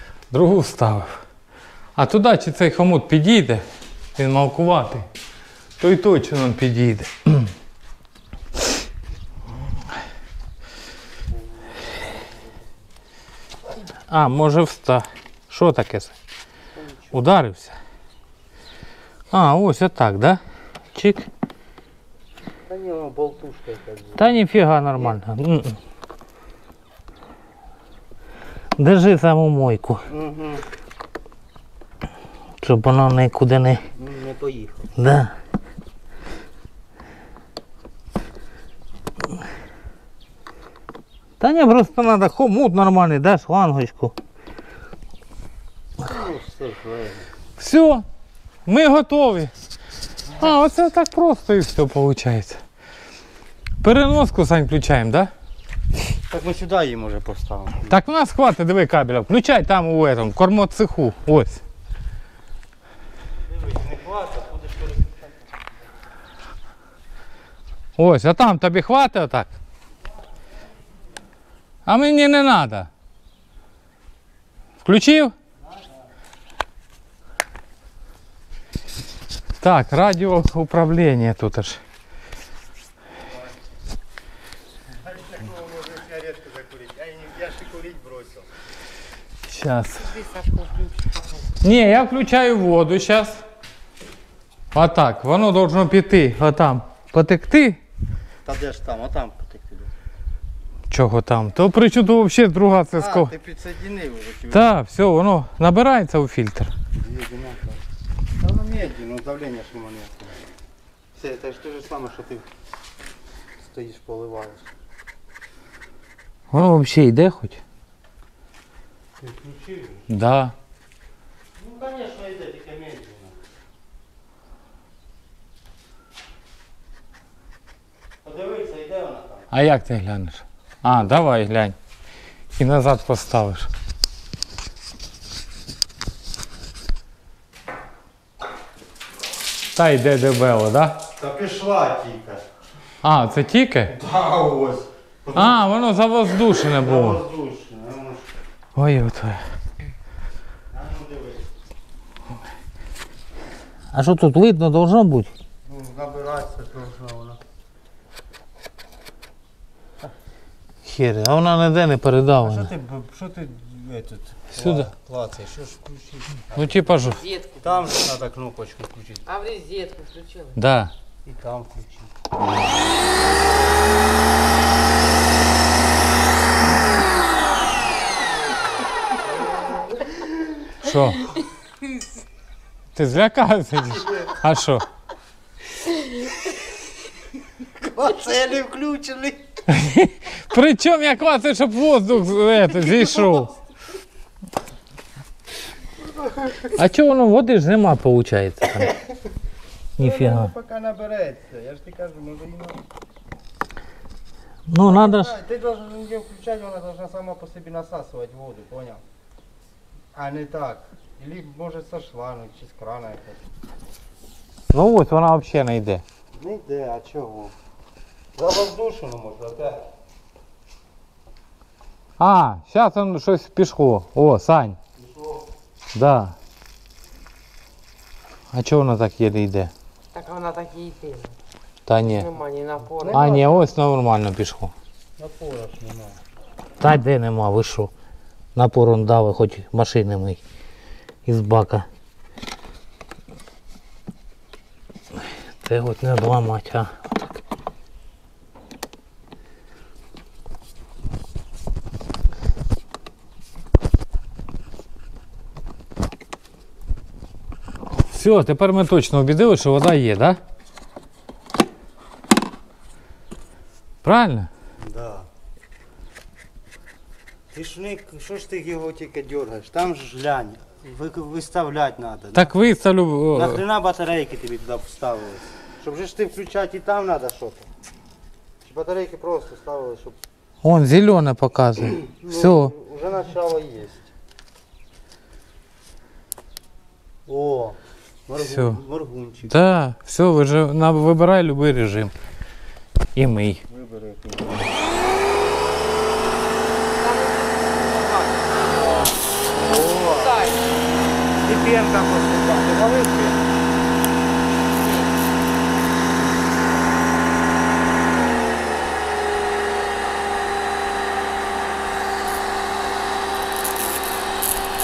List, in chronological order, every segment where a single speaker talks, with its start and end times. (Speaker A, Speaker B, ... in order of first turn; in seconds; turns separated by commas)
Speaker A: 0.3-1.2, Speaker A: 1.9-3.6, Speaker A: 4.2-5.0, Speaker A: 5.8-7.5, Speaker B: 11.3-12.6, Speaker A: 14.1-16.1, Speaker B: 16.7-17.2, Speaker A: 17.1-17.8, Speaker A: 19.3-20.4, Speaker A: 20.9-21.3, Speaker B: 22.7-24.4, Speaker A: 24.2-25.8, Speaker A: 28.8-30.1, Speaker B: 30.1-30.6, Speaker A: 32.6-33.8, Speaker B: 33.9-34.9, Speaker A: 35.0-35.3, Speaker A: 41.4-44.1, Speaker B: 46.0-47.3, Speaker A: 47.6-48.0, Speaker A: 48.6-49.5, Speaker A: 50.4-52.6, Speaker A: 53.8-55.3, Speaker B: 56.3-58.0, Speaker A: 57.9-61.6, Speaker B: 63.5-65.7, Speaker A: 68.0-69.5, Speaker A: 71.9-72.9, Speaker A: 74.8-75.3, Speaker A: 79.6-81.8, Speaker B: 84.9-88.5, Speaker A: 89.5-90.1, Speaker C: 90.0-91.3, Speaker A: 91.6-93.4, Speaker A: 94.7-97.8, Speaker B: 98.4-99.9, Speaker A: 100.9-103.3, Speaker B: 103.0-104.8, Speaker A: 104.5-106.7, Speaker B: 107.0-107.8, Speaker B: 108.4-110.4, Speaker B: 111.1-112.5, Speaker B: 113.6-114.7, Speaker A: 116.5-117.6, Speaker B: 119.2-120.0, Speaker A: 120.1-120.5, Speaker B: 121.6-123.4, Speaker B: 128.2-129.5, Speaker A: 129.5-131.8, Speaker A: 132.6-133.7, Speaker A: 139.8-141.0, Speaker B: 141.2-142.4, Speaker A: 143.0-143.9, Speaker B: 143.9-145.6, Speaker A: 145.3-147.2, Speaker B: 146.7-148.3, Speaker A: 148.8-149.4, Speaker B: 150.7-151.5, Speaker A: 153.9-155.3, Speaker B: 155.6-157.4, Speaker A: 160.8-162.7, Speaker B: 162.4-167.0, Speaker A: 164.6-164.9, Speaker A: 166.5-167.2, Speaker C: 167.0-167.8, Speaker B: 167.6-169.2, Speaker C: 169.2-170.6, Speaker A: 170.6-170.9, Speaker B: 171.2-172.1, Speaker B: 179.2-180.3, Speaker A: 180.8-181.3, Speaker A: 182.9-184.8, Speaker B: 184.0-184.3, Speaker B: 187.8-189.4, Speaker A: 189.7-193.5, Speaker B: 193.0-193.4, Speaker B: 196.0-196.7, Speaker A: 196.7-198.9, Speaker A: 200.0-200.5, Speaker B: 200.0-202.8, Speaker A: 204.7-205.3, Speaker B: 204.8-209.0, Speaker B: 210.1-213.4, Speaker A: 214.7-216.0, Speaker B: 216.3-217.5, Speaker B: 218.3-219.8, Speaker A: 222.2-224.8, Speaker B: 225.0-225.5, Speaker A: 225.9-226.3, Speaker A: 228.5-229.7, Speaker C: 230.1-231.3, Speaker A: 231.8-232.3, Speaker C: 232.1-233.7, Speaker B: 233.0-233.5, Speaker A: 233.1-234.7, Speaker B: 235.2-236.2, Speaker A: 236.8-237.9, Speaker A: 238.5-240.4, Speaker A: 241.2-241.8, Speaker A: 245.6-246.9, Speaker A: 258.1-260.4, Speaker A: 264.0-264.5, Speaker B: 264.8-265.3, Speaker B: 267.5-272.5, Speaker A: 272.3-273.6, Speaker B: 273.3-277.7, Speaker B: 278.6-280.2, Speaker A: 280.6-282.7, Speaker B: 282.0-284.1, Speaker B: 287.2-289.6, Speaker A: 288.4-288.8, Speaker A: 289.5-292.1, Speaker A: 293.1-293.6, Speaker B: 293.7-294.8, Speaker C: 297.0-299.0, Speaker B: 299.6-300.3, Speaker C: 299.9-300.8, Speaker B: 301.4-303.4, Speaker C: 304.7-305.1